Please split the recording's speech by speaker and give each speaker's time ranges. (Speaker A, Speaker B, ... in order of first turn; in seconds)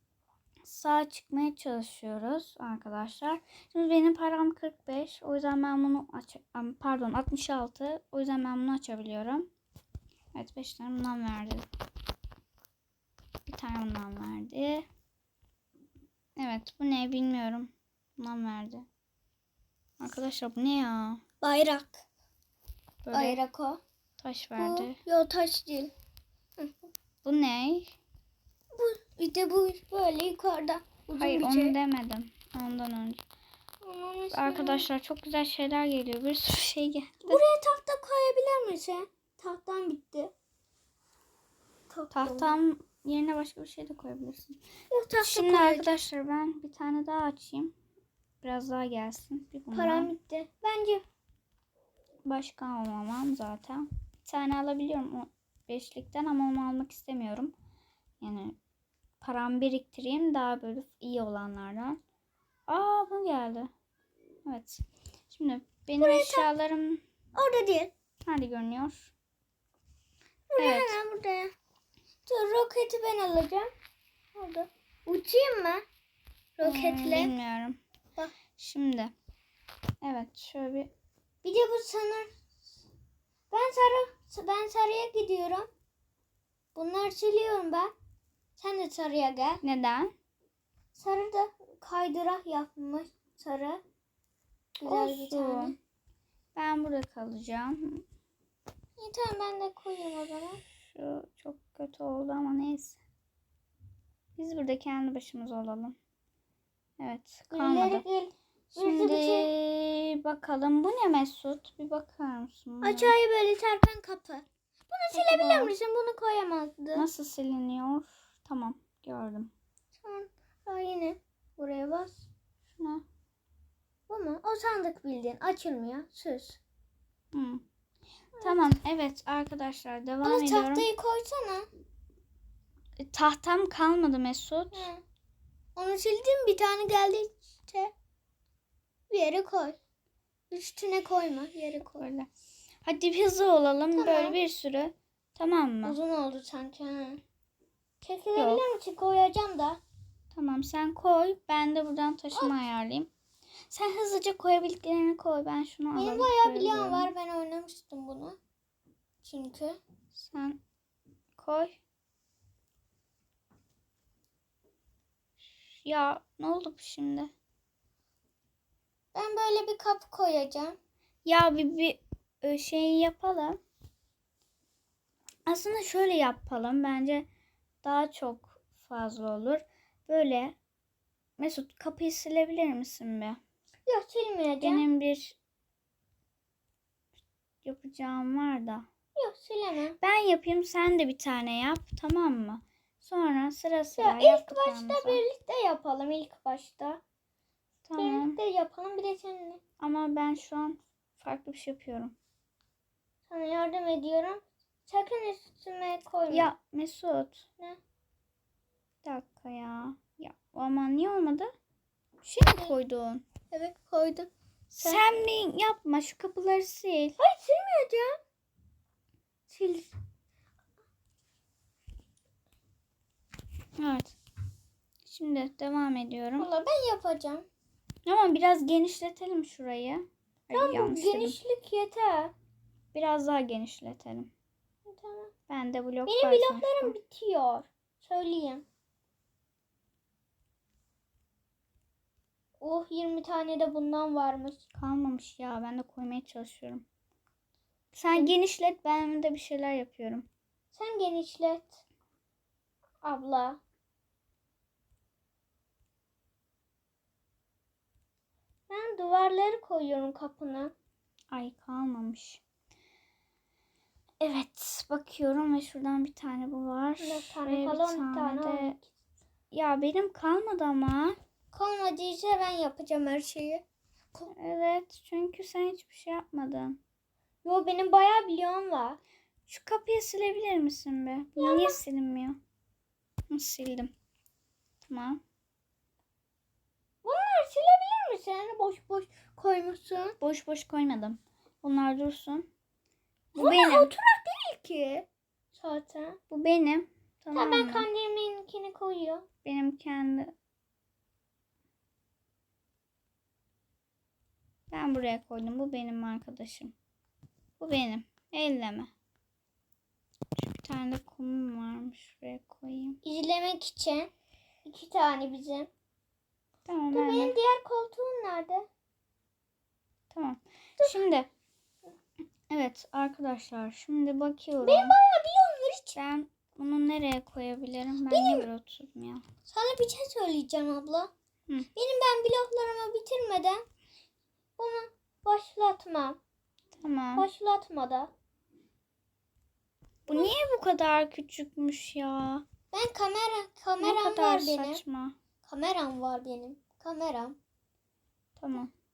Speaker A: 0.6-9.5, 10.3-11.7, 13.4-14.8, 16.4-18.9, 20.0-21.2, 23.0-23.4, 24.2-25.0, 27.2-27.9, 31.2-33.2, 34.3-37.4, 42.1-44.6, 45.2-47.7, 48.4-50.1, 52.2-57.5, 58.2-58.6, 59.2-62.0, 62.7-63.7, 64.4-67.0, 68.2-69.1, 70.6-71.0, 76.6-77.8, 78.5-79.1, 80.0-80.9, 89.6-90.1, 94.8-95.7, 96.5-98.0, 100.8-103.0, 104.3-106.0, 107.0-108.0, 108.8-113.1, 115.1-115.7, 116.9-119.5, 122.8-123.0, 127.3-127.6, 128.4-130.9, 133.0-134.9, 142.0-142.3, 142.8-146.0, 148.3-148.7, 150.3-153.1, 153.7-157.1, 160.1-160.6, 161.4-161.8, 165.7-167.3, 171.2-173.6, 175.4-177.3, 177.8-180.6, 181.4-183.4, 184.6-185.4, 187.6-188.9, 190.0-195.2, 197.8-198.4, 199.8-202.1, 206.3-207.4, 209.0-211.5, 212.2-213.2, 214.7-217.2, 223.8-224.2, 225.0-226.5, 228.1-231.4, 232.9-234.3, 235.5-236.9, 244.7-246.8, 247.9-250.3, 261.3-262.4, 264.2-268.8, 269.5-271.2, 274.3-276.8, 279.5-282.4, 283.3-283.9, 284.9-285.2, 290.2-292.5, 293.3-293.9, 296.3-297.9, 299.4-300.3, 304.7-306.7, 307.6-308.9, 310.4-313.0, 316.6-317.4, 320.1-321.3, 322.5-324.9, 325.9-329.2, 336.7-337.3, 340.1-342.4, 343.8-345.1, 348.4-348.7
Speaker B: 21.4-22.0, 23.1-23.8, 24.6-25.9, 26.6-26.8, 28.7-31.8, 33.8-34.9, 37.2-40.3, 41.9-42.5, 44.9-45.9, 49.7-51.0, 66.0-66.5, 67.3-67.9, 70.5-71.5, 72.2-73.7, 74.3-75.8, 76.6-77.3, 81.4-82.3, 83.5-85.7, 86.7-87.9, 88.6-89.6, 90.9-93.8, 94.8-95.8, 99.0-100.6, 107.5-109.5, 112.8-117.0, 120.0-122.2, 124.1-126.6, 128.4-128.7, 130.2-131.7, 134.7-135.0, 135.8-137.9, 139.1-139.8, 140.5-142.1, 143.9-144.4, 145.8-147.2, 148.0-149.8, 155.9-158.4, 159.2-159.8, 169.1-170.8, 183.8-184.8, 189.2-189.9, 194.0-197.0, 198.0-199.6, 203.3-206.5, 212.5-212.7, 213.5-215.0, 217.2-218.1, 219.5-219.9, 226.4-227.5, 230.5-232.3, 234.9-235.3, 236.1-238.6, 242.6-244.6, 250.7-251.8, 253.0-253.6, 258.7-260.7, 267.0-268.9, 271.5-274.3, 277.4-279.0, 281.4-281.8, 287.0-290.1, 293.4-296.2, 297.3-299.2, 313.0-314.1, 314.6-315.7, 316.9-318.7, 324.6-325.9, 328.1-328.4, 329.5-331.1, 331.7-333.6, 334.6-336.2, 337.1-338.1, 340.1-340.3, 342.7-344.8, 345.4-347.4